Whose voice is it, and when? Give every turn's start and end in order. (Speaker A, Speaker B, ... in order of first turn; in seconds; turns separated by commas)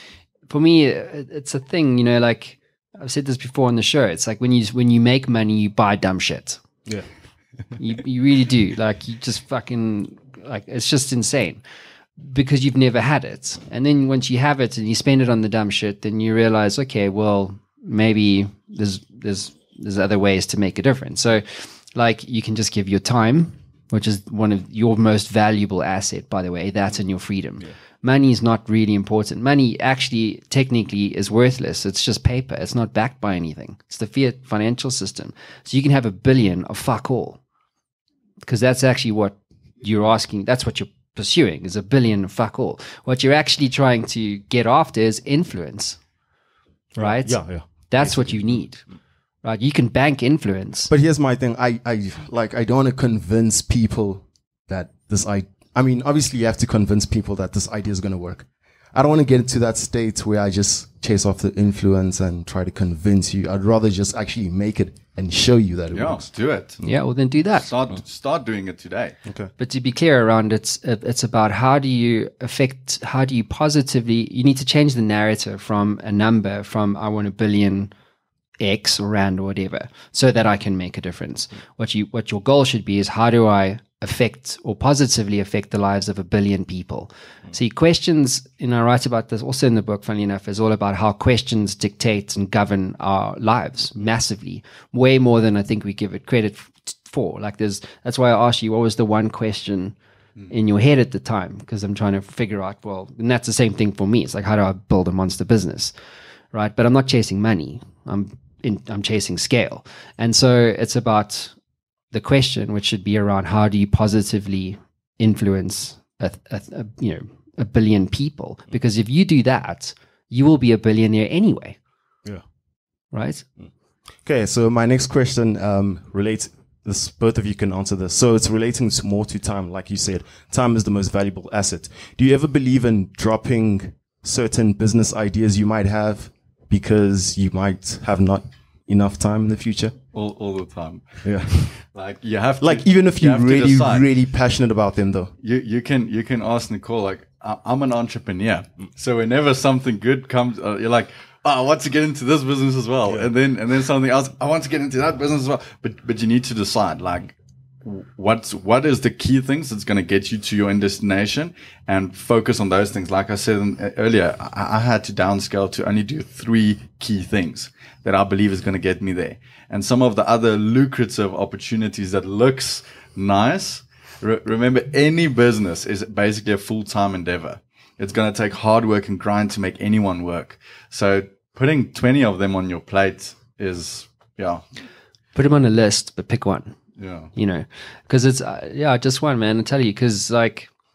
Speaker A: 0.5-6.6, Speaker A: 7.8-11.6, Speaker A: 12.2-37.4, Speaker A: 38.4-46.0, Speaker B: 47.0-48.6, Speaker A: 47.0-48.9, Speaker A: 49.4-50.9, Speaker B: 50.9-66.2, Speaker C: 65.9-66.8, Speaker A: 66.8-67.7, Speaker C: 67.6-69.2, Speaker B: 69.2-69.5, Speaker A: 69.6-77.9, Speaker A: 78.6-100.0, Speaker A: 100.5-105.9, Speaker A: 106.5-111.5, Speaker A: 112.1-121.8, Speaker A: 123.1-123.5, Speaker B: 124.2-139.9, Speaker C: 140.1-144.1, Speaker B: 141.2-141.8, Speaker B: 142.6-145.3, Speaker C: 145.4-184.6, Speaker A: 185.3-186.8, Speaker C: 187.0-187.3, Speaker A: 187.3-190.7